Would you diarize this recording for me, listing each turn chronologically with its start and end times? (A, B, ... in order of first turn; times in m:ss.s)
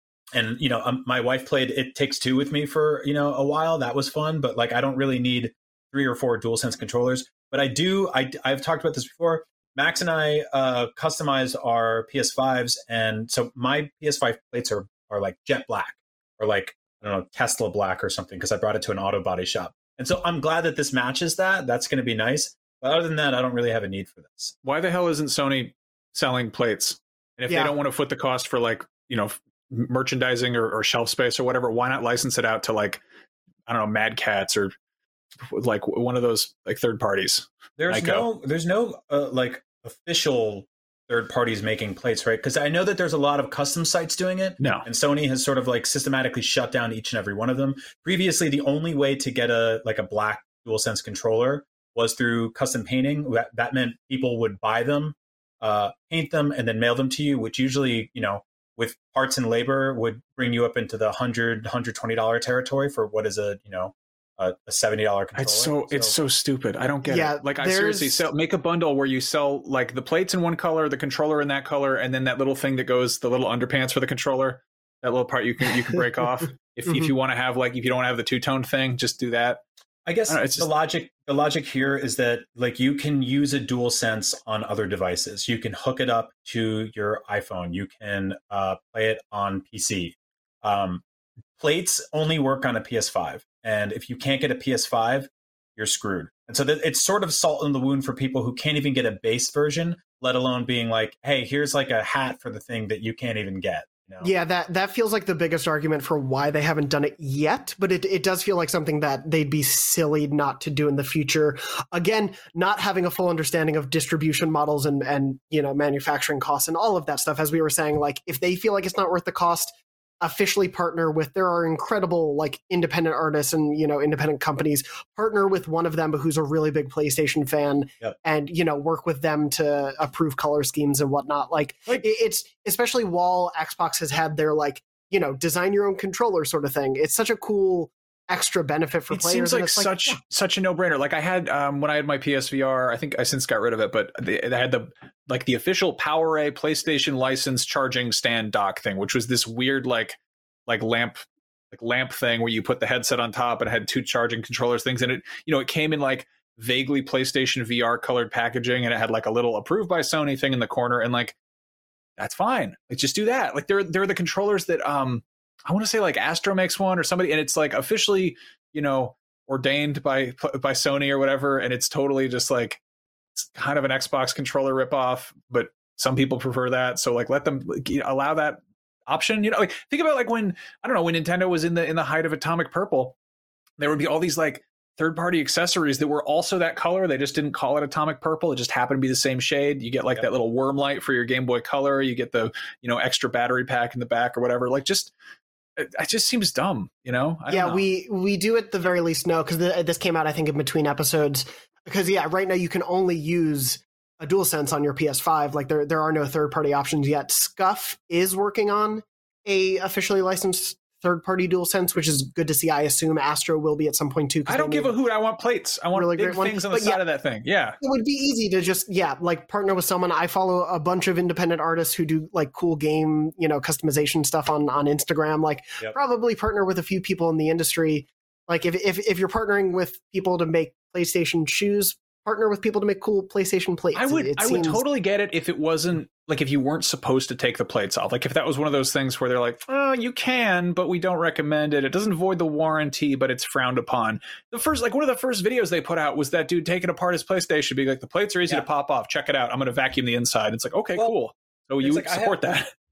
0:00.3-0:24.5 A
0:24.6-0:33.0 B
0:27.5-0:27.8 C
0:33.7-0:34.7 B
0:35.4-0:38.3 B
0:37.8-1:06.1 A
0:44.6-0:44.9 B
1:05.4-1:19.6 B
1:07.0-1:08.2 C
1:16.8-1:17.1 C
1:20.0-1:31.0 A
1:20.3-1:20.7 B
1:31.6-1:44.3 A
1:44.2-2:20.2 C
2:19.1-2:41.4 B
2:42.2-2:52.8 B
2:53.4-3:03.1 B
3:03.8-3:15.1 B
3:15.8-3:17.8 B
3:17.5-3:35.0 C
3:34.5-3:37.8 B
3:35.9-3:37.0 C
3:37.8-3:54.8 C
3:53.9-4:12.7 B
4:11.8-4:12.6 A